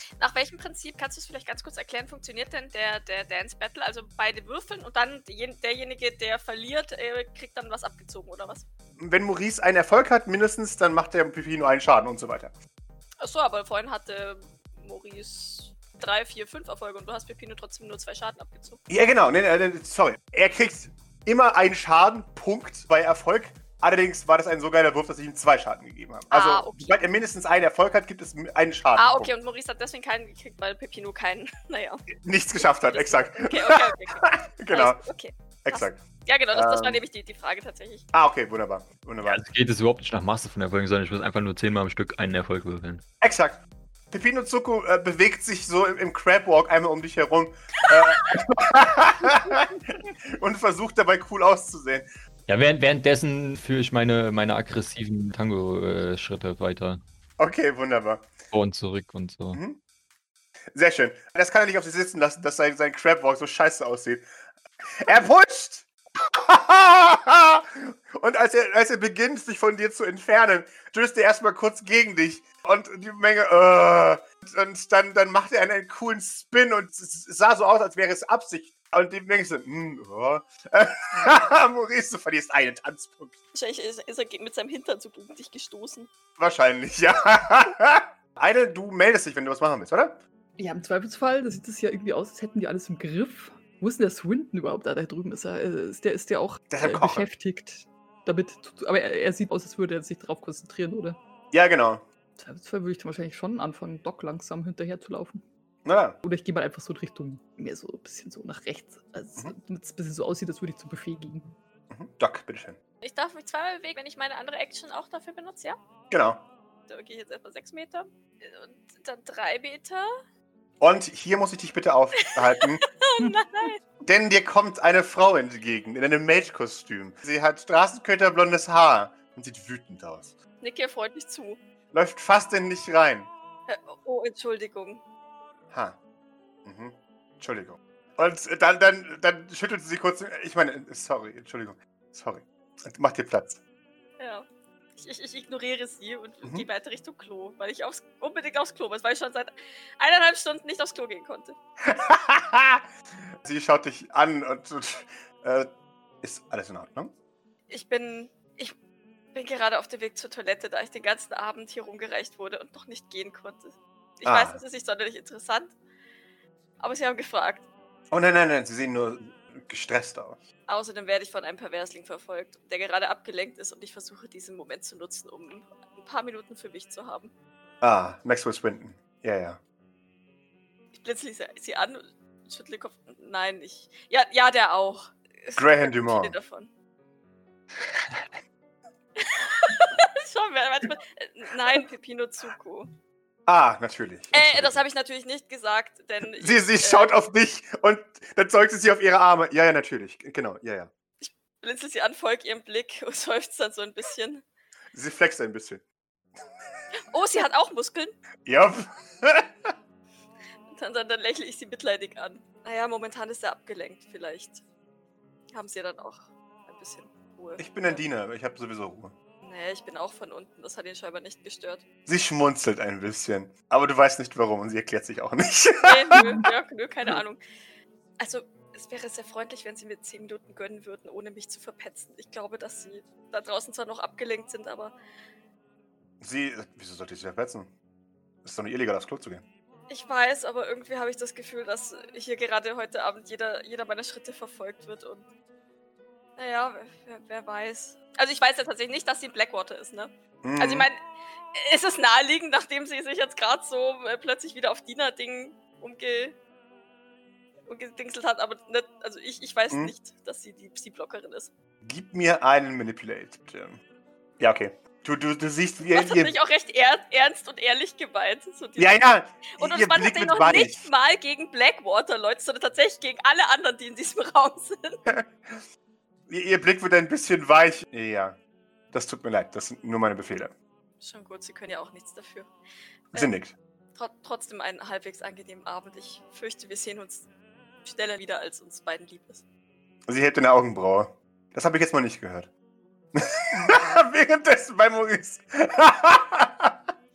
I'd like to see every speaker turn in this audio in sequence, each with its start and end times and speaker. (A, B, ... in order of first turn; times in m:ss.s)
0:00.2-0:08.6 A
0:09.0-0:12.5 B
0:13.2-0:18.8 A
0:18.9-0:29.3 B
0:26.3-0:27.0 A
0:29.0-0:32.1 A
0:32.1-0:35.0 B
0:32.7-0:38.1 A
0:35.6-0:36.0 B
0:36.5-0:37.0 B
0:38.1-0:39.4 B
0:39.2-0:43.0 C
0:43.2-0:52.1 B
0:52.5-0:57.0 C
0:57.4-0:58.3 B
0:58.5-0:59.6 C
0:59.5-0:59.8 B
1:00.7-1:04.3 B
1:04.9-1:23.4 B
1:23.5-1:26.1 A
1:26.4-1:30.2 B
1:30.6-1:41.2 D
1:36.7-1:37.3 B
1:41.5-1:42.1 B
1:42.4-1:45.4 D
1:45.8-1:46.2 B
1:46.2-1:51.6 D
1:51.9-1:52.8 B
1:53.0-1:55.8 A
1:56.1-1:56.5 B
1:56.9-2:00.1 A
2:00.8-2:02.8 B
2:02.9-2:03.8 A
2:04.0-2:10.4 B
2:10.6-2:11.6 A
2:11.9-2:13.3 B
2:13.7-2:15.0 A
2:15.7-2:16.0 B
2:16.6-2:23.6 B
2:24.2-2:31.6 A
2:31.9-2:32.9 B
2:33.4-2:37.1 B
2:37.7-2:38.7 A
2:39.3-2:45.8 A
2:44.2-2:44.6 B
2:46.8-2:47.7 A
2:48.1-2:50.4 B
2:50.7-2:57.3 A
2:57.8-2:59.6 B
3:00.9-3:06.7 A
3:05.6-3:06.4 B
3:09.2-3:12.9 A
3:13.5-3:14.8 B
3:14.3-3:17.1 A
3:16.2-3:20.9 B
3:21.2-3:24.4 A
3:24.9-3:25.8 B
3:27.1-3:28.2 A
3:28.5-3:29.7 B
3:30.7-3:34.6 A
3:35.5-3:38.1 A
3:37.6-3:39.2 B
3:39.4-3:41.8 A
3:42.1-3:46.2 B
3:45.8-3:47.4 A
3:48.2-3:55.0 A
3:56.2-3:57.7 B
3:58.4-3:59.4 B
3:59.9-4:05.3 A
4:06.4-4:11.0 A
4:10.4-4:10.9 B
4:11.5-4:16.4 A
4:17.7-4:21.5 A
4:21.8-4:23.8 B
4:24.4-4:26.4 B
4:25.9-4:35.0 A
4:28.8-4:30.9 B
4:35.1-4:35.6 B
4:36.3-4:38.4 B
4:38.9-4:40.5 B
4:41.0-4:42.5 A
4:43.1-4:43.6 B
4:44.0-4:47.3 A
4:47.8-4:49.4 A
4:50.1-4:52.5 B
4:53.2-4:56.8 B